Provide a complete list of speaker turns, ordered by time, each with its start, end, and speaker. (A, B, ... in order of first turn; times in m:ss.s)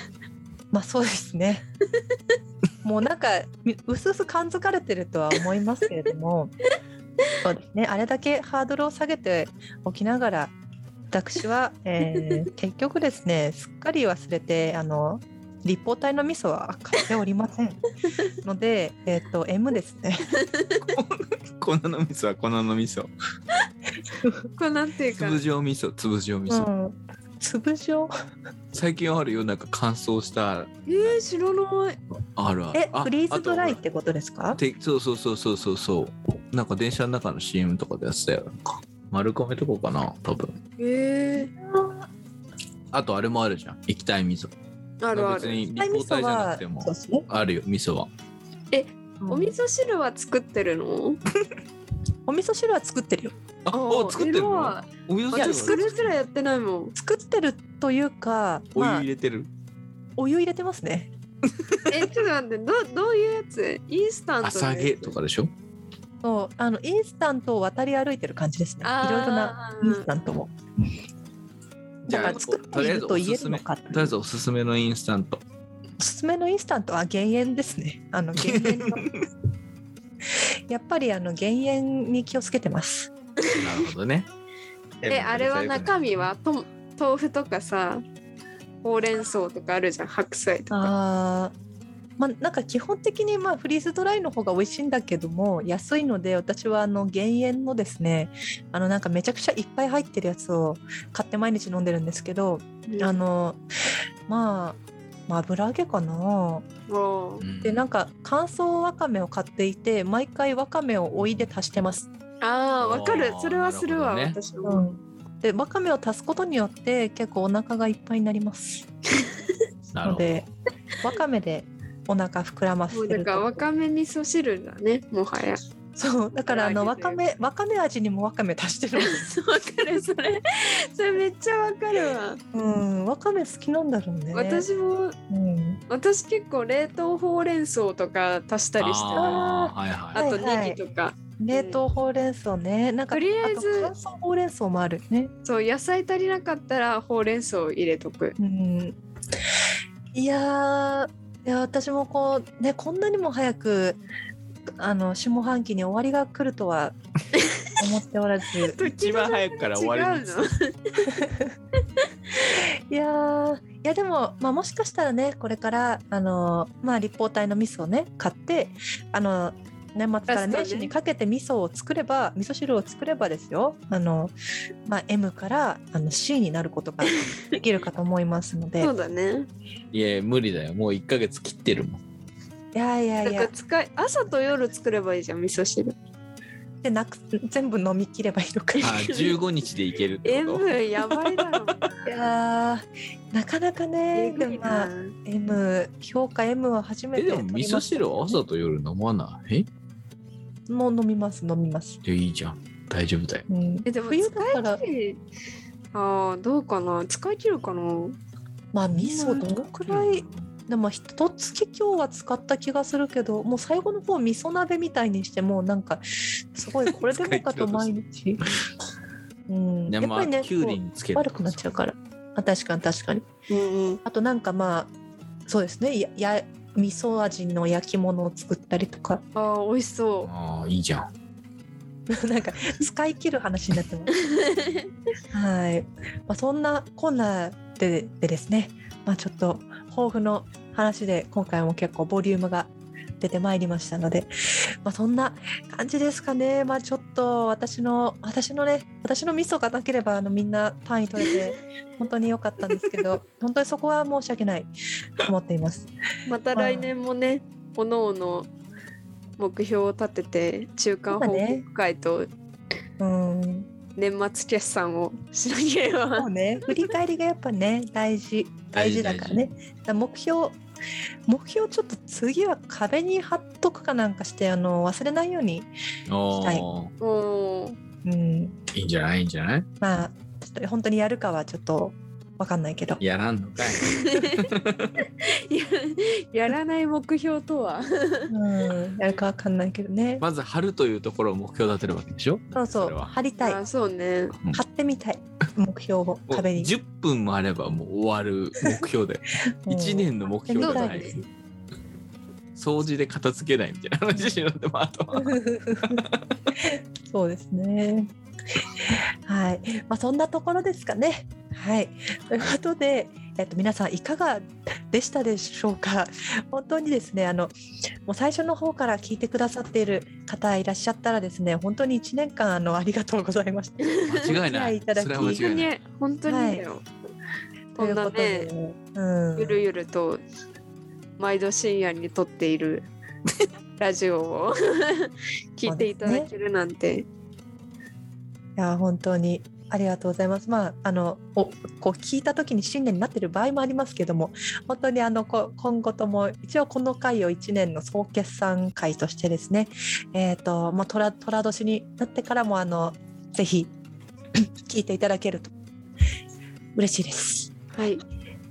0:00.7-0:01.6 A
0:02.8-0:06.5 A
0:07.4-0:10.5 A
0:11.1-0:17.8 A
0:18.4-0:20.3 A
0:20.4-0:20.8 B
0:20.8-0:23.1 C
0:24.2-0:24.4 A
0:24.6-0:25.4 B
0:25.2-0:26.7 C
0:26.5-0:28.1 A
0:28.7-0:31.2 C
0:30.9-0:32.0 B
0:32.4-0:33.8 C
0:32.7-0:34.6 A
0:34.6-0:40.6 C
0:40.8-0:41.5 B
0:41.6-0:42.1 A
0:42.9-0:44.5 C
0:45.0-0:45.6 B
0:45.1-0:48.1 C
0:45.8-0:47.3 A
0:48.7-0:51.2 B
0:49.2-0:49.5 A
0:52.3-0:53.4 A
0:53.6-0:56.1 C
0:53.7-0:57.0 B
0:55.3-0:56.0 A
0:57.0-0:59.0 A
0:58.7-0:59.5 C
1:00.2-1:01.1 A
1:01.9-1:05.1 B
1:04.4-1:05.5 C
1:06.2-1:10.5 A
1:08.8-1:10.0 B
1:12.0-1:15.4 C
1:12.1-1:14.1 A
1:16.0-1:19.0 A
1:18.4-1:19.2 C
1:20.7-1:23.1 A
1:23.5-1:24.3 C
1:25.0-1:26.2 C
1:25.1-1:28.0 B
1:28.8-1:30.9 B
1:30.7-1:31.5 A
1:32.2-1:43.6 A
1:42.9-1:43.2 B
1:44.3-1:46.6 A
1:46.9-1:47.4 B
1:47.4-1:47.8 C
1:47.6-1:52.1 A
1:52.4-1:54.8 B
1:52.8-1:54.4 C
1:54.6-1:58.9 A
1:59.9-2:00.4 C
2:00.0-2:00.5 A
2:01.0-2:03.6 A
2:02.9-2:05.6 B
2:06.0-2:09.3 A
2:06.5-2:07.2 B
2:09.0-2:12.4 B
2:12.5-2:14.6 A
2:14.3-2:15.2 B
2:15.3-2:15.8 A
2:15.9-2:19.4 B
2:18.8-2:20.2 C
2:19.1-2:20.8 A
2:20.1-2:21.8 B
2:21.4-2:25.3 A
2:23.1-2:23.9 B
2:25.4-2:28.4 B
2:28.4-2:29.0 A
2:30.1-2:34.0 A
2:34.8-2:37.0 A
2:37.8-2:38.8 A
2:38.8-2:40.7 B
2:38.8-2:40.4 C
2:41.1-2:41.5 A
2:42.4-2:54.3 A
2:50.3-2:50.9 B
2:54.8-2:58.9 A
2:57.1-2:57.4 B
2:58.8-2:59.5 B
2:59.9-3:02.0 C
3:02.7-3:03.5 A
3:03.2-3:06.0 B
3:06.8-3:09.1 A
3:08.8-3:09.3 B
3:08.8-3:11.4 C
3:10.2-3:11.9 B
3:12.0-3:18.4 A
3:14.1-3:15.1 B
3:17.2-3:19.7 C
3:20.7-3:22.0 A
3:22.0-3:23.4 C
3:23.5-3:24.8 A
3:23.9-3:25.2 B
3:25.9-3:28.2 B
3:28.7-3:38.4 A
3:28.9-3:30.5 C
3:36.8-3:37.9 C
3:39.5-3:43.3 A
3:39.9-3:41.6 C
3:43.5-3:44.0 B
3:44.0-3:44.9 A
3:45.5-3:49.2 A
3:49.3-3:50.3 B
3:50.2-3:51.1 C
3:52.1-3:54.1 A
3:54.2-3:54.8 B
3:55.3-4:15.8 A
4:16.3-4:18.5 B
4:16.5-4:16.9 A
4:19.4-4:22.3 B
4:21.1-4:21.6 A
4:23.0-4:23.7 A
4:24.0-4:26.3 B
4:26.2-4:30.6 A
4:28.7-4:29.4 C
4:31.3-4:35.7 A
4:36.1-4:36.9 C
4:36.3-4:36.6 A
4:37.0-4:37.8 B
4:38.0-4:38.6 A
4:38.7-4:39.7 C
4:39.8-4:43.0 A
4:43.0-4:45.0 C
4:43.8-4:44.5 B
4:45.2-4:48.3 B
4:48.3-4:50.2 A
4:50.2-4:53.1 C
4:52.5-4:53.6 A
4:53.4-4:54.3 B
4:54.5-4:56.7 A
4:56.3-5:01.1 C
4:59.6-5:01.1 A
5:00.6-5:01.2 B
5:02.6-5:06.3 C
5:04.1-5:04.4 A
5:05.1-5:06.0 A
5:06.6-5:08.1 A
5:08.8-5:17.5 A
5:18.0-5:25.4 A
5:24.1-5:25.7 C
5:25.2-5:26.8 B
5:26.3-5:26.6 A
5:27.8-5:28.5 B
5:27.8-5:29.6 A
5:29.4-5:30.2 B
5:31.2-5:32.9 B
5:33.8-5:37.1 B
5:35.6-5:36.3 A
5:38.6-5:53.7 A
5:54.3-5:55.5 A
5:56.7-5:57.6 A
5:57.8-5:58.0 B